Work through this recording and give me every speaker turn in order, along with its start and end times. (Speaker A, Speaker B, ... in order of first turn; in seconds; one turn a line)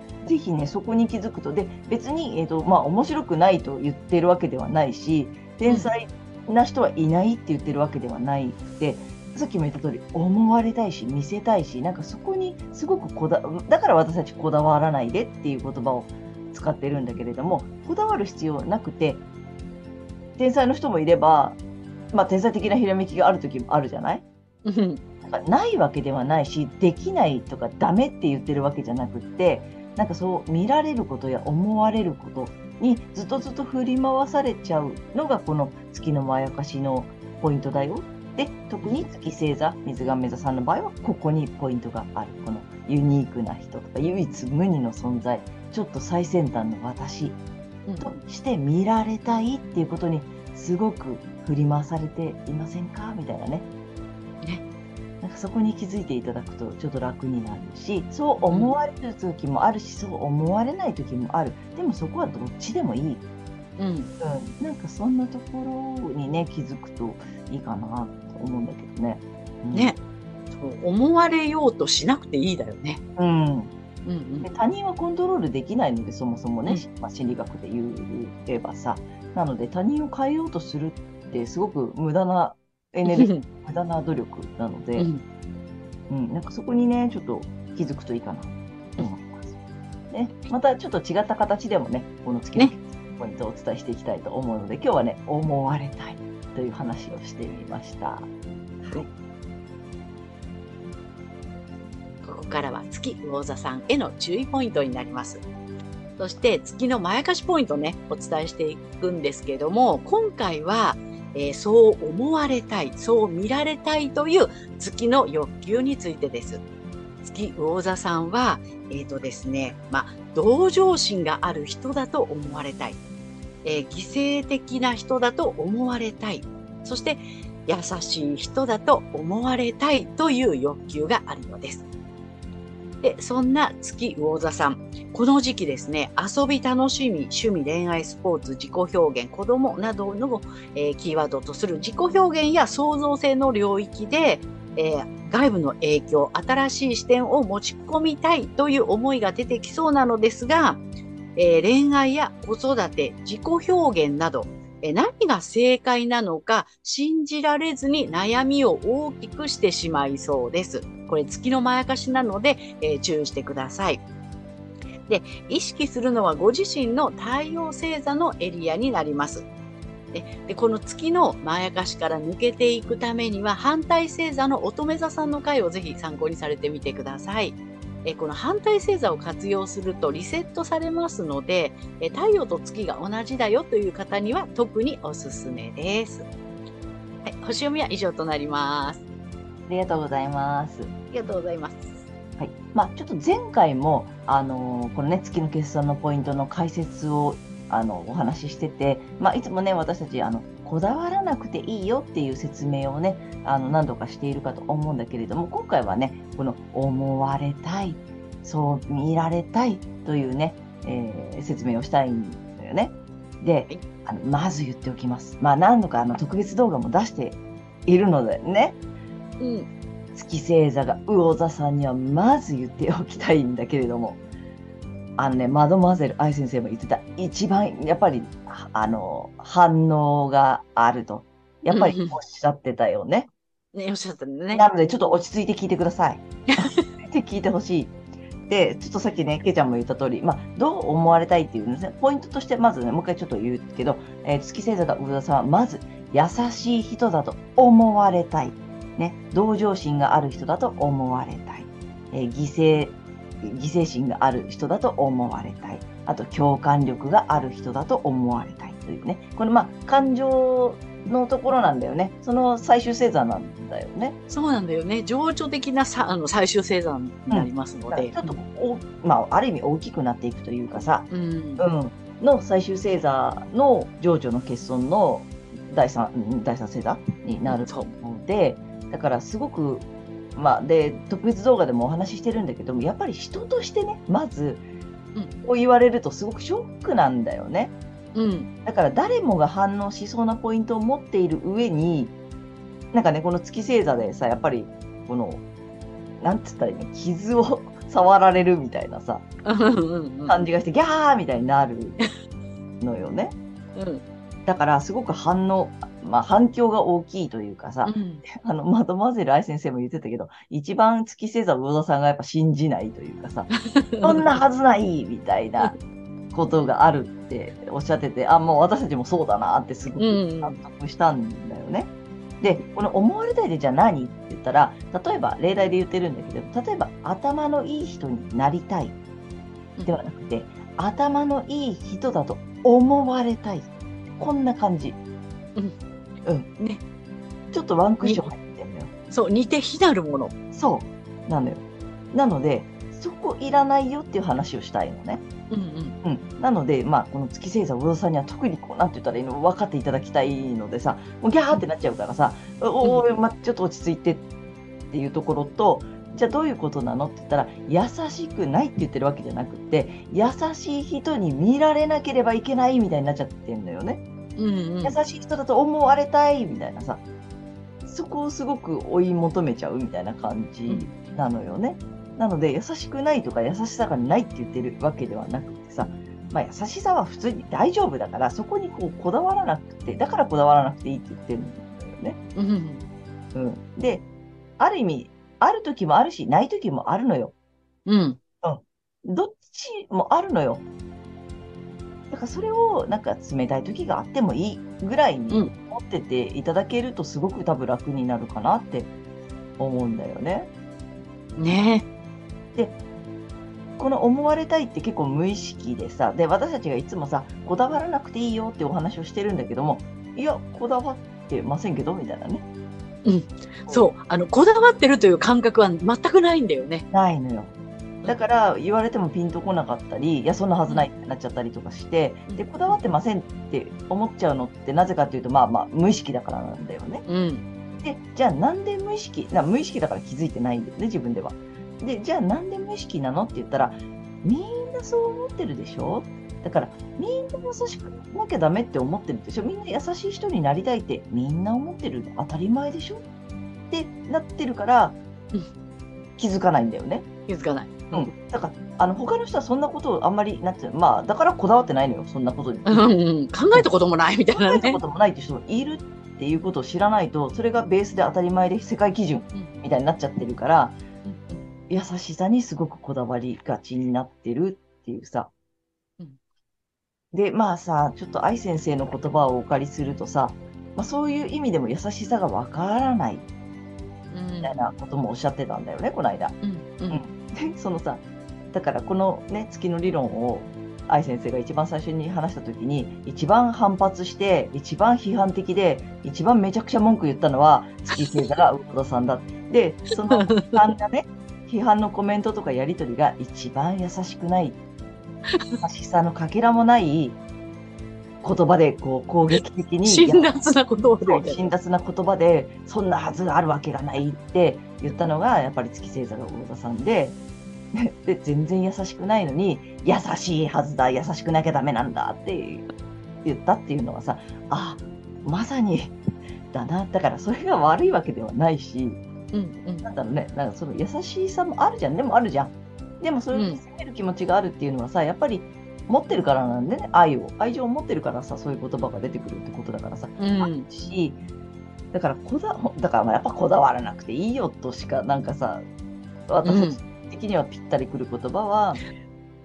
Speaker A: 0.2-19.2
Speaker B: 5.7-5.9
Speaker A: 20.4-21.6
Speaker A: 22.1-24.2
Speaker B: 24.6-25.0
Speaker A: 25.2-47.4
Speaker B: 47.9-48.2
Speaker A: 48.0-53.6
Speaker A: 55.2-63.2
Speaker B: 58.5-58.8
Speaker B: 63.8-64.1
Speaker A: 64.2-69.9
Speaker B: 69.7-70.0
Speaker B: 70.5-73.0
Speaker A: 73.2-73.7
Speaker B: 74.0-74.5
Speaker A: 74.4-85.1
Speaker B: 83.0-83.5
Speaker B: 85.0-85.2
Speaker A: 86.1-89.5
Speaker A: 90.1-98.3
Speaker B: 102.2-105.4
Speaker B: 106.2-116.6
Speaker B: 117.2-123.0
Speaker B: 123.6-131.8
Speaker B: 133.0-150.8
Speaker B: 151.3-164.0
Speaker B: 165.1-169.4
Speaker B: 170.1-186.3
Speaker B: 187.2-189.0
Speaker A: 189.7-190.9
Speaker B: 191.1-192.0
Speaker A: 192.4-218.8
Speaker B: 219.4-219.7
Speaker A: 220.1-224.2
Speaker A: 225.2-233.3
Speaker B: 231.7-232.2
Speaker B: 233.7-234.7
Speaker A: 234.5-237.9
Speaker B: 236.5-236.9
Speaker A: 238.5-264.2
Speaker B: 264.3-268.4
Speaker A: 267.3-284.6
Speaker B: 271.1-271.6
Speaker B: 277.5-277.9
Speaker A: 285.4-287.7
Speaker B: 288.1-288.5
Speaker A: 288.6-292.1
Speaker A: 292.9-295.4
Speaker A: 296.2-299.2
Speaker B: 299.4-300.4
Speaker A: 300.3-302.1
Speaker A: 302.8-303.4
Speaker B: 303.7-304.0
Speaker A: 304.4-313.5
Speaker B: 307.9-308.2
Speaker B: 313.5-314.4
Speaker A: 314.0-315.8
Speaker A: 316.3-329.0
Speaker B: 320.0-320.6
Speaker A: 329.8-335.0
Speaker A: 337.5-338.9
Speaker B: 338.0-338.3
Speaker B: 339.1-340.3
Speaker A: 340.5-345.2
Speaker B: 345.5-345.9
Speaker A: 346.0-354.2
Speaker B: 352.8-353.1
Speaker A: 354.9-364.0
Speaker B: 364.4-365.0
Speaker A: 364.8-367.0
Speaker A: 367.8-382.2
Speaker B: 370.7-370.9
Speaker B: 382.4-382.8
Speaker A: 383.3-384.1
Speaker A: 384.6-387.3
Speaker B: 387.9-388.2
Speaker A: 388.4-390.6
Speaker A: 392.1-398.9
Speaker A: 399.6-400.5
Speaker B: 401.4-401.9
Speaker A: 403.8-412.4
Speaker B: 413.0-416.9
Speaker A: 413.6-413.9
Speaker A: 416.9-417.5
Speaker A: 418.1-427.0
Speaker B: 422.3-422.8
Speaker B: 427.1-427.4
Speaker A: 427.8-443.0
Speaker A: 443.7-445.0
Speaker A: 446.2-447.1
Speaker B: 447.3-448.1
Speaker A: 447.9-452.9
Speaker B: 452.6-454.8
Speaker A: 454.3-460.8
Speaker B: 461.0-461.4
Speaker A: 461.7-465.3
Speaker A: 467.1-473.2
Speaker B: 474.1-474.7
Speaker A: 474.4-476.4
Speaker B: 476.4-477.0
Speaker A: 476.9-494.6
Speaker B: 490.1-490.7
Speaker B: 495.3-495.6
Speaker A: 495.6-497.2
Speaker A: 498.2-500.3
Speaker B: 499.8-501.5
Speaker A: 501.0-507.2
Speaker A: 507.7-512.7
Speaker A: 513.2-516.0
Speaker A: 516.5-519.0
Speaker B: 519.3-519.9
Speaker A: 519.8-531.2
Speaker B: 523.3-523.6
Speaker B: 530.2-530.7
Speaker A: 531.9-535.6
Speaker A: 536.3-538.8
Speaker B: 536.4-536.8